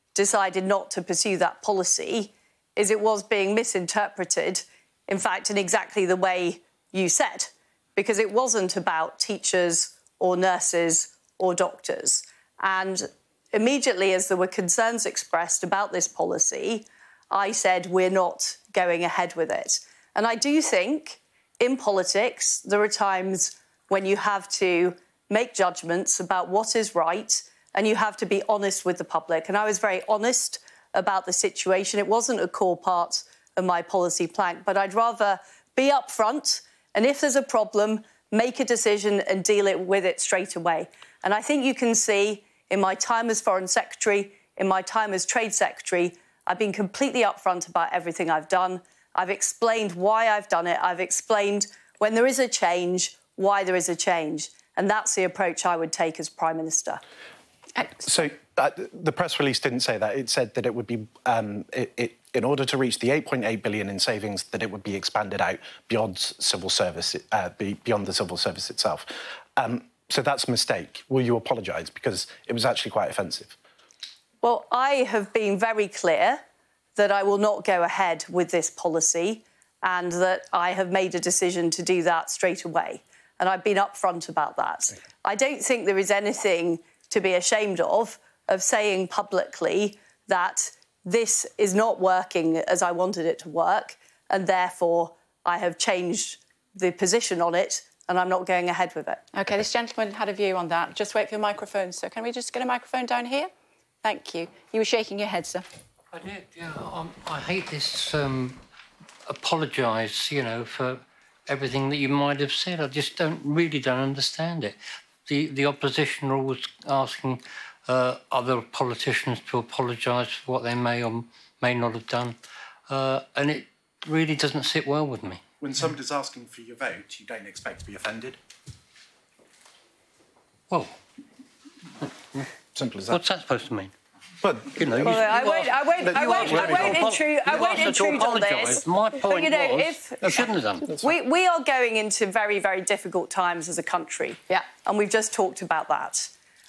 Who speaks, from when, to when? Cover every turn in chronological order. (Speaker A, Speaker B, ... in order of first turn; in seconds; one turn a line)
Speaker A: 0.1-57.0
Speaker B: 57.8-58.0
Speaker C: 58.0-73.5
Speaker A: 74.4-76.4
Speaker A: 77.0-99.2
Speaker B: 99.3-103.5
Speaker B: 104.0-105.7
Speaker D: 106.1-108.6
Speaker D: 109.2-122.4
Speaker D: 122.9-125.4
Speaker C: 125.6-128.4
Speaker D: 130.7-130.9
Speaker C: 132.7-133.2
Speaker D: 133.1-133.9
Speaker C: 134.4-137.1
Speaker D: 134.6-140.9
Speaker A: 135.0-146.3